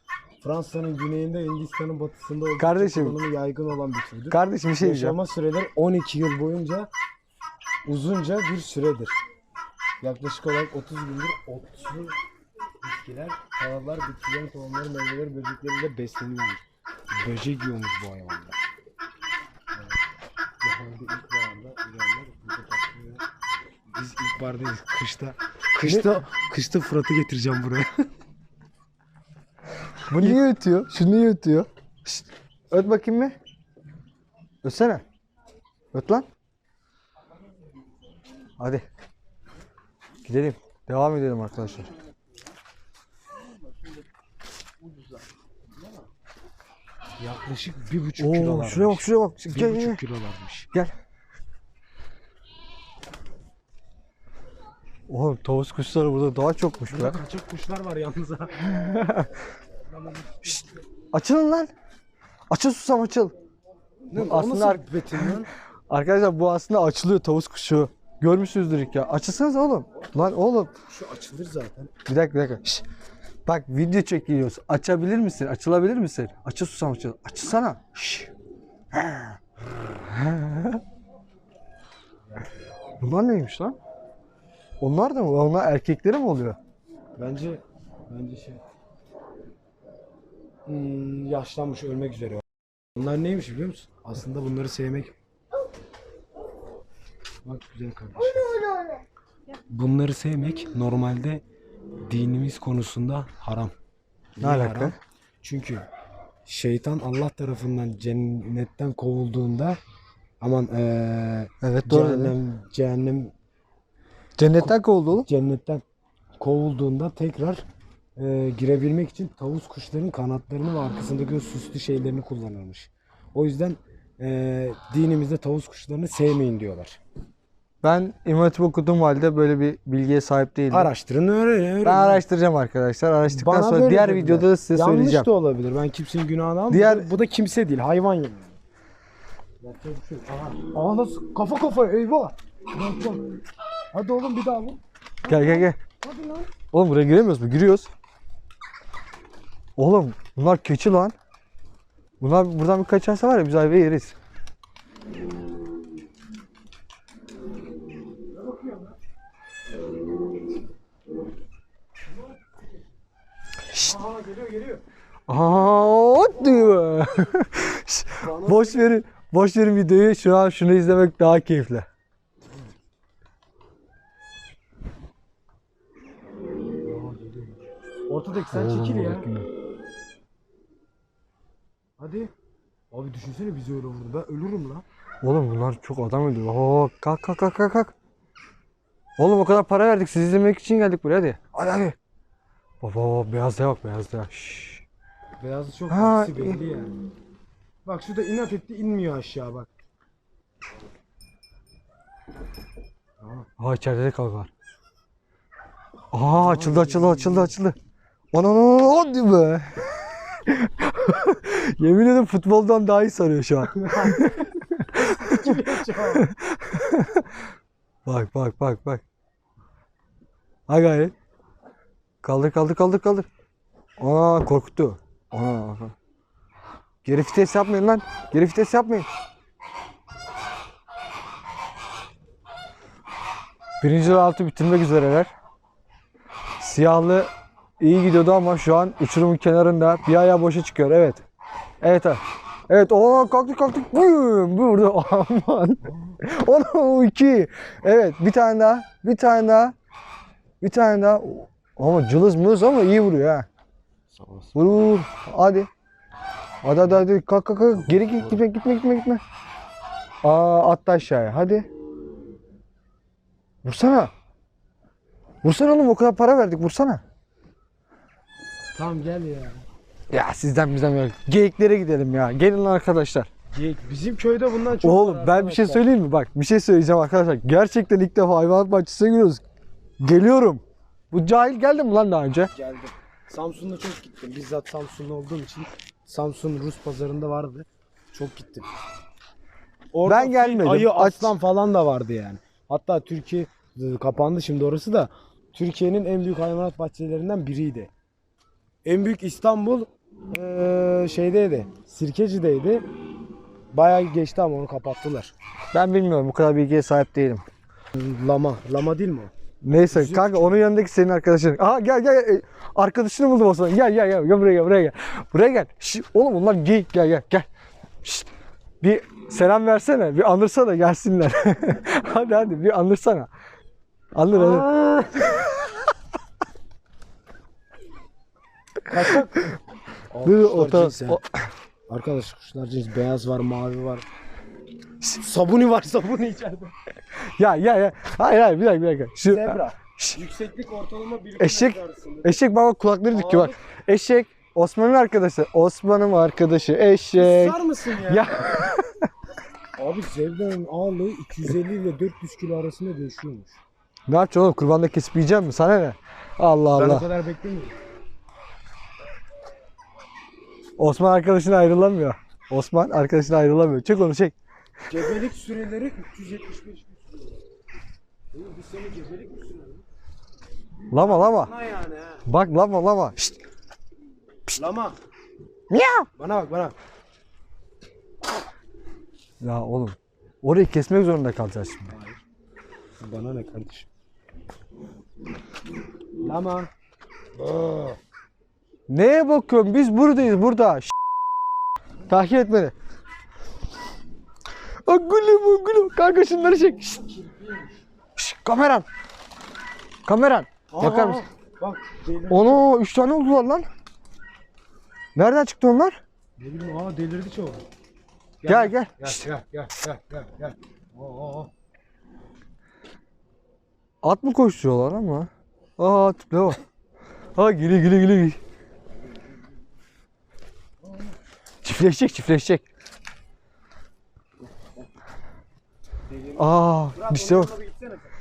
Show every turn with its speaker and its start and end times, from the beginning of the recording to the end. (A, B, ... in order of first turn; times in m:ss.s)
0:00.4-0:06.9 A
0:02.6-0:03.2 B
0:04.3-0:05.2 B
0:07.8-0:09.2 A
0:10.0-0:12.2 A
0:12.8-0:18.6 A
0:20.6-0:23.2 A
0:23.9-0:28.0 A
0:25.8-0:26.2 B
0:30.1-0:33.4 B
0:34.6-0:35.0 B
0:35.9-0:36.3 B
0:38.6-0:38.8 B
0:40.2-0:41.9 B
0:47.2-0:50.7 A
0:48.2-0:50.0 B
0:55.1-0:57.2 B
0:56.9-0:58.7 A
0:58.7-0:59.3 B
1:00.0-1:00.7 A
1:01.1-1:01.7 B
1:02.5-1:03.3 B
1:04.1-1:05.5 A
1:04.1-1:10.7 B
1:10.9-1:11.9 A
1:12.1-1:12.8 B
1:13.5-1:18.3 B
1:18.9-1:19.4 B
1:20.0-1:20.8 B
1:23.0-1:23.8 B
1:24.8-1:26.6 B
1:27.2-1:28.6 A
1:30.7-1:35.1 A
1:37.4-1:38.6 A
1:39.7-1:41.4 A
1:42.0-1:43.7 A
1:44.4-1:45.8 A
1:44.4-1:45.0 B
1:46.5-1:49.8 A
1:50.4-1:53.3 A
1:51.6-1:52.4 B
1:54.4-1:55.3 B
1:54.6-1:55.8 A
1:56.4-1:57.6 A
1:58.2-2:07.0 A
2:07.8-2:10.9 B
2:10.7-2:12.2 A
2:11.8-2:15.3 B
2:13.3-2:18.6 A
2:16.7-2:17.1 B
2:19.6-2:23.3 A
2:23.9-2:26.5 A
2:25.3-2:25.8 B
2:26.7-2:27.9 B
2:29.8-2:31.2 B
2:32.2-2:34.2 B
2:38.4-2:38.9 A
2:43.7-2:44.8 A
2:45.3-2:51.9 B
2:48.2-2:48.9 A
2:56.8-2:59.3 A
2:58.5-2:59.5 B
3:02.0-3:02.3 A
3:02.9-3:04.8 A
3:05.2-3:07.9 B
3:09.2-3:12.0 B
3:12.8-3:14.8 B
3:15.4-3:16.9 A
3:15.9-3:16.6 B
3:17.8-3:19.7 A
3:23.2-3:23.5 A
3:23.6-3:24.5 B
3:26.1-3:27.8 B
3:26.3-3:27.6 A
3:28.3-3:37.3 B
3:33.8-3:34.3 A
3:34.9-3:36.3 A
3:38.1-3:39.0 B
3:40.7-3:41.1 B
3:42.2-3:43.3 B
3:44.0-3:45.9 B
3:47.0-3:49.1 B
3:53.8-3:55.3 B
3:56.6-4:01.2 B
4:01.8-4:09.8 B
4:05.9-4:06.2 A
4:10.6-4:13.5 B
4:14.1-4:14.6 A
4:14.6-4:15.7 B
4:16.6-4:19.2 B
4:18.0-4:18.4 A
4:20.2-4:21.7 B
4:23.6-4:24.1 B
4:25.4-4:27.0 B
4:28.8-4:29.6 A
4:30.1-4:33.3 B
4:33.5-4:35.8 A
4:34.8-4:39.4 B
4:40.0-4:42.5 B
4:42.5-4:48.7 A
4:49.9-4:57.9 A
4:50.1-4:51.3 B
4:58.8-5:02.8 A
5:03.7-5:05.3 A
5:05.7-5:07.4 B
5:07.9-5:09.3 A
5:09.6-5:17.5 B
5:09.9-5:10.6 A
5:18.8-5:23.3 B
5:24.2-5:24.7 B
5:24.3-5:25.5 A
5:28.9-5:29.6 A
5:30.1-5:31.2 A
5:30.2-5:31.4 B
5:31.9-5:34.0 A
5:35.1-5:36.7 A
5:37.4-5:40.2 B
5:39.2-5:42.4 A
5:41.4-5:49.1 B
5:43.1-5:43.6 A
5:47.2-5:48.4 A
5:49.8-5:53.6 A
5:54.1-5:57.0 B
5:56.8-5:57.8 A
6:00.8-6:04.4 B
6:04.9-6:07.4 A
6:08.3-6:09.9 A
6:10.9-6:11.5 B
6:11.0-6:12.2 A
6:12.3-6:13.4 B
6:14.5-6:15.0 A
6:15.7-6:16.1 B
6:16.2-6:16.8 A
6:19.4-6:22.0 B
6:21.9-6:22.2 A
6:23.0-6:23.9 A
6:26.2-6:26.7 A
6:27.4-6:28.0 A
6:28.9-6:30.9 B
6:32.1-6:32.7 B
6:34.8-6:37.0 B
6:36.6-6:37.8 A
6:38.2-6:38.9 B
6:40.1-6:41.2 B
6:40.7-6:42.7 A
6:42.3-6:43.7 B
6:45.2-6:46.0 B
6:46.4-6:47.6 A
6:48.4-6:51.5 A
6:48.5-6:49.2 B
6:54.0-6:56.6 B
6:57.4-6:58.4 B
7:01.6-7:02.6 B
7:06.1-7:08.1 A
7:06.4-7:07.5 B